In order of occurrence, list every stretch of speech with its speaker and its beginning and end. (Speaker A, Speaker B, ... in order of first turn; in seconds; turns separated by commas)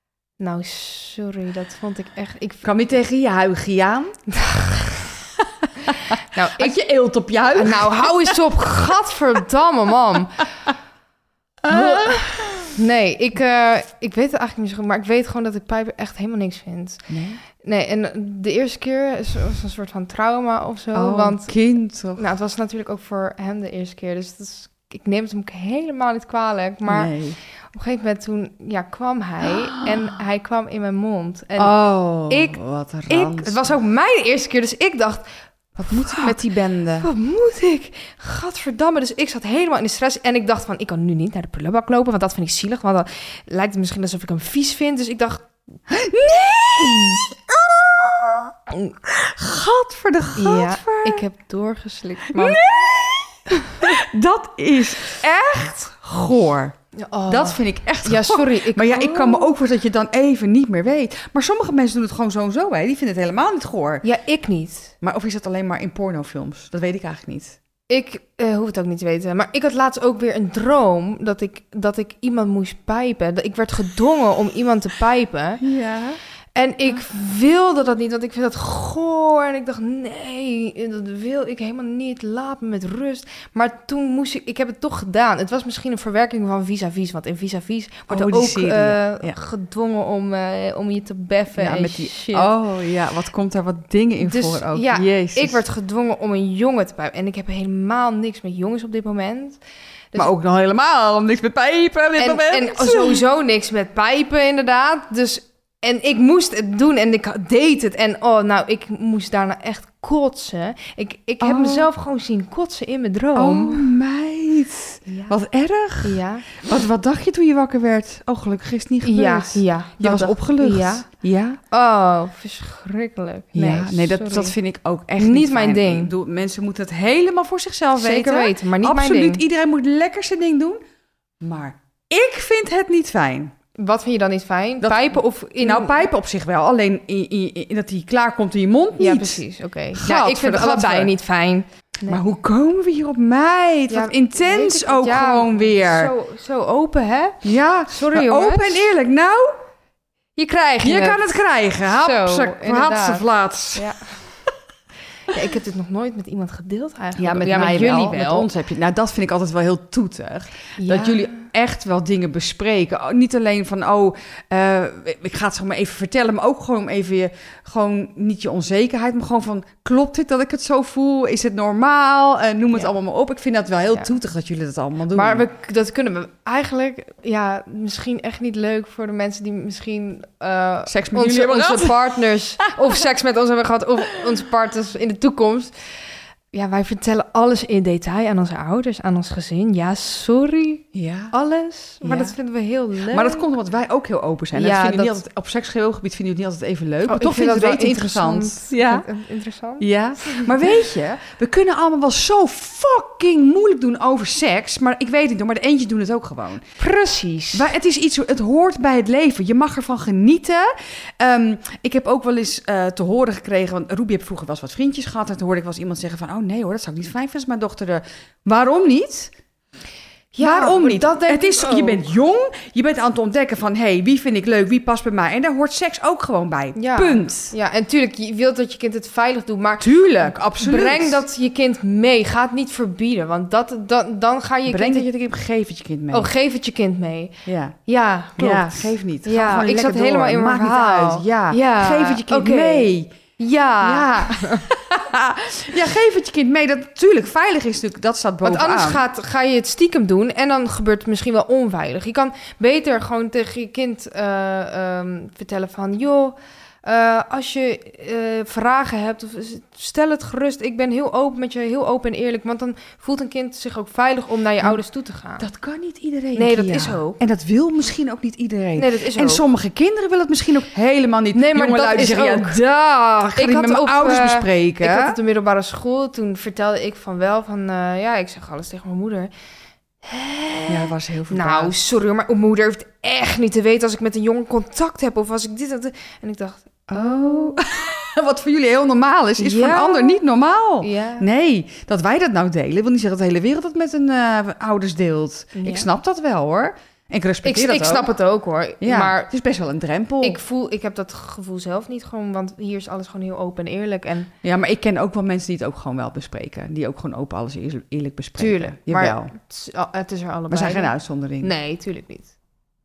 Speaker A: 0.4-2.6, Speaker B: 2.6-4.1, Speaker A: 4.3-5.1, Speaker B: 5.4-8.4, Speaker A: 6.0-6.8, Speaker A: 7.5-10.4, Speaker B: 11.6-12.7, Speaker A: 11.7-21.5, Speaker B: 17.1-17.4, Speaker B: 20.9-22.2, Speaker A: 22.1-27.1, Speaker B: 26.9-27.4, Speaker A: 27.7-31.8, Speaker B: 31.6-33.7, Speaker A: 32.3-35.2, Speaker B: 35.8-37.1, Speaker A: 35.9-36.4, Speaker A: 37.0-45.5, Speaker B: 45.9-51.2, Speaker A: 50.4-52.6, Speaker B: 52.3-56.7, Speaker A: 53.5-53.9, Speaker A: 56.9-59.5, Speaker B: 57.3-64.0, Speaker A: 64.0-64.9, Speaker B: 65.0-67.6, Speaker A: 67.9-75.6, Speaker B: 75.6-76.2, Speaker A: 76.5-92.5, Speaker B: 88.1-89.3, Speaker B: 91.5-95.6, Speaker A: 94.2-99.6, Speaker B: 100.2-103.2, Speaker A: 102.2-113.9, Speaker B: 111.4-111.9, Speaker B: 113.3-121.6, Speaker A: 115.1-115.3, Speaker A: 116.0-116.5, Speaker A: 119.0-121.1, Speaker A: 121.7-124.5, Speaker B: 123.5-130.8, Speaker A: 125.2-126.1, Speaker A: 128.0-129.4, Speaker B: 131.4-133.5, Speaker A: 133.8-136.1, Speaker B: 134.8-139.4, Speaker A: 139.0-142.2, Speaker B: 139.9-141.1, Speaker B: 142.1-146.1, Speaker A: 143.9-148.9, Speaker B: 147.4-149.6, Speaker A: 150.3-154.3, Speaker B: 150.8-153.9, Speaker A: 155.3-158.5, Speaker B: 157.2-175.4, Speaker A: 160.8-161.4, Speaker A: 175.1-185.7, Speaker B: 180.9-182.1, Speaker A: 186.5-193.5, Speaker B: 190.9-191.3, Speaker B: 192.0-192.3, Speaker B: 193.1-199.1, Speaker A: 194.5-195.2, Speaker A: 197.1-200.7, Speaker B: 199.8-206.6, Speaker A: 206.8-207.7, Speaker B: 207.5-219.3, Speaker A: 220.3-222.0, Speaker B: 220.4-227.5, Speaker A: 226.7-235.1, Speaker B: 229.8-231.2, Speaker B: 234.7-236.3, Speaker A: 236.1-244.7, Speaker B: 237.4-237.8, Speaker B: 238.4-243.1, Speaker B: 243.8-249.0, Speaker A: 248.4-265.5, Speaker B: 265.4-275.1, Speaker A: 266.3-267.2, Speaker A: 268.8-269.4, Speaker A: 271.3-272.6, Speaker A: 273.3-279.3, Speaker A: 280.0-287.6, Speaker B: 280.7-281.7, Speaker B: 286.9-298.1, Speaker A: 289.4-290.2, Speaker A: 290.8-291.2, Speaker A: 295.5-295.9, Speaker A: 297.4-299.3, Speaker B: 298.8-300.4, Speaker A: 300.2-304.3, Speaker B: 304.4-309.3, Speaker A: 308.4-312.3, Speaker B: 310.5-311.5